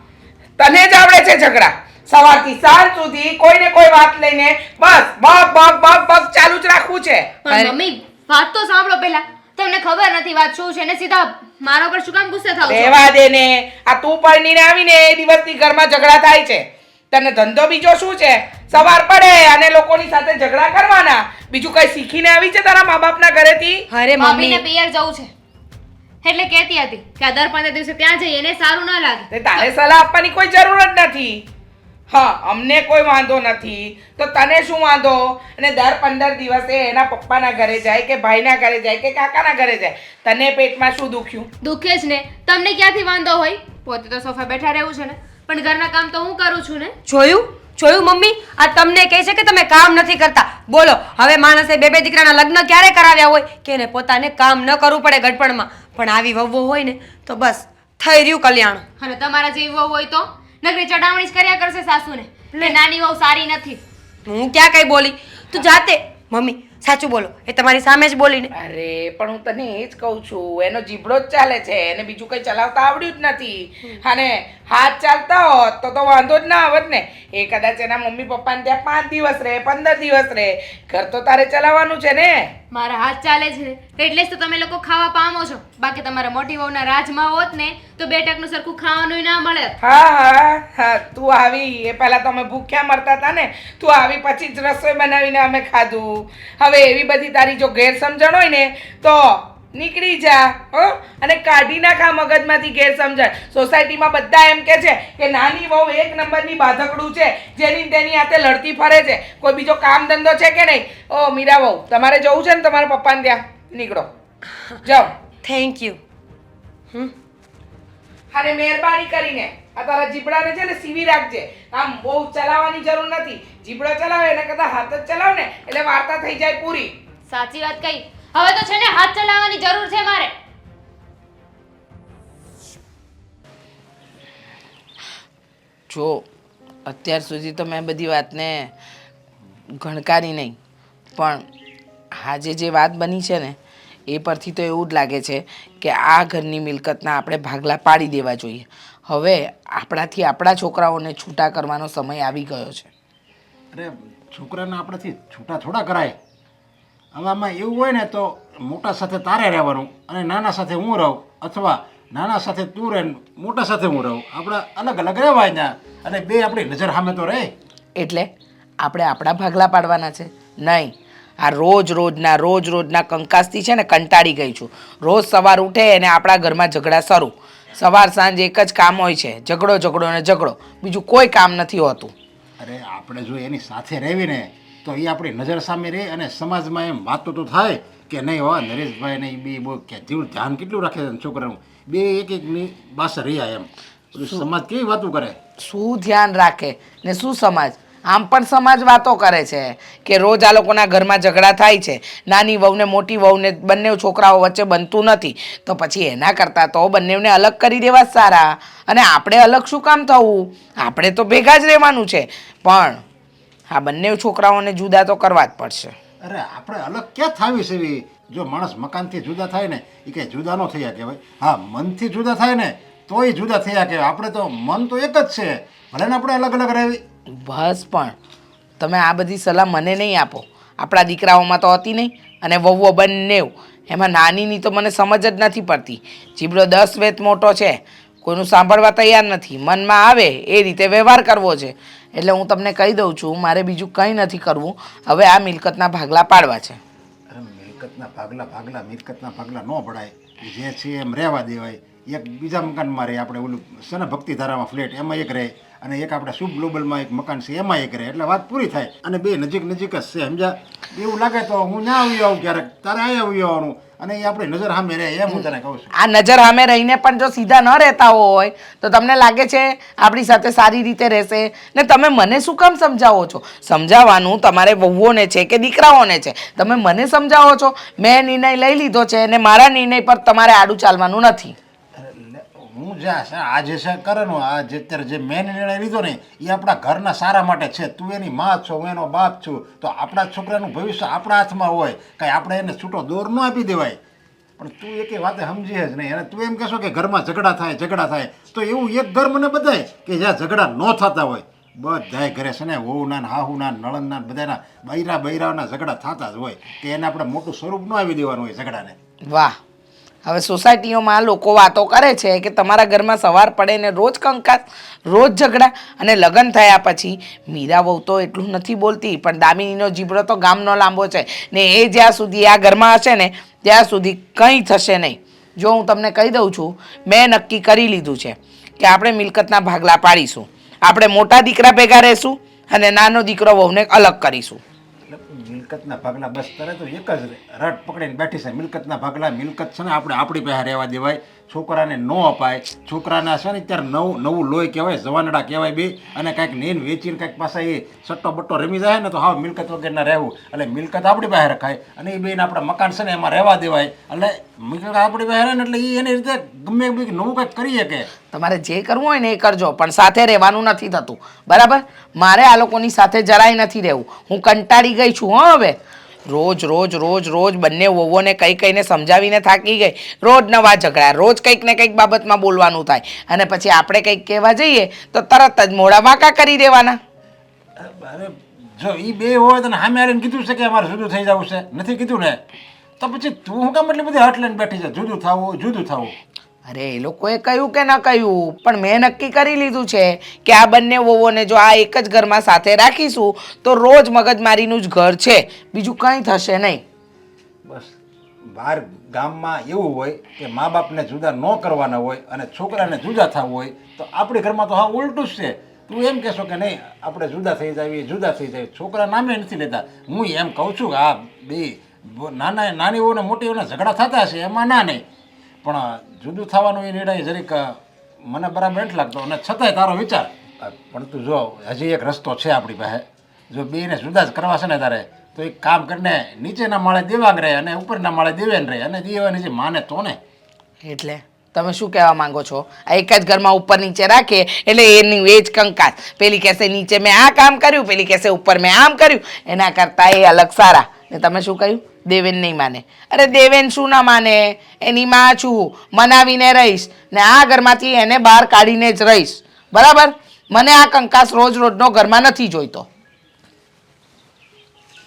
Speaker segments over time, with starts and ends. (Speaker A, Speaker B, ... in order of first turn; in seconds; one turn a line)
Speaker A: 0.6-7.3
Speaker B: 7.5-13.0
Speaker C: 7.5-7.7
Speaker A: 12.7-23.8
Speaker C: 23.9-24.6
Speaker B: 24.2-25.3
Speaker B: 26.2-29.3
Speaker A: 29.3-31.4
Speaker A: 32.1-41.5
Speaker B: 41.6-47.0
Speaker C: 47.1-58.8
Speaker B: 59.0-63.8
Speaker C: 64.3-68.5
Speaker A: 68.5-82.5
Speaker B: 82.7-89.8
Speaker A: 89.8-114.1
Speaker A: 114.9-115.1
Speaker C: 115.4-116.0
Speaker A: 118.3-126.9
Speaker B: 127.3-130.3
Speaker A: 135.9-136.2
Speaker A: 136.9-138.7
Speaker A: 139.8-140.6
Speaker A: 141.2-141.4
Speaker A: 142.2-143.6
Speaker A: 144.1-152.9
Speaker D: 153.7-156.2
Speaker D: 157.1-167.5
Speaker A: 168.0-168.3
Speaker A: 168.8-182.1
Speaker D: 182.6-195.4
Speaker A: 195.6-213.0
Speaker A: 213.7-215.9
Speaker D: 216.2-227.0
Speaker A: 227.3-228.2
Speaker A: 228.8-246.8
Speaker D: 247.3-265.9
Speaker A: 266.0-281.6
Speaker D: 282.0-294.0
Speaker D: 294.6-308.9
Speaker A: 309.3-309.6
Speaker A: 310.2-334.6
Speaker D: 335.1-358.1
Speaker A: 358.3-377.0
Speaker D: 377.8-382.4
Speaker D: 383.0-386.1
Speaker A: 386.7-396.8
Speaker D: 397.6-397.9
Speaker D: 398.5-415.0
Speaker D: 415.6-430.2
Speaker A: 430.9-452.9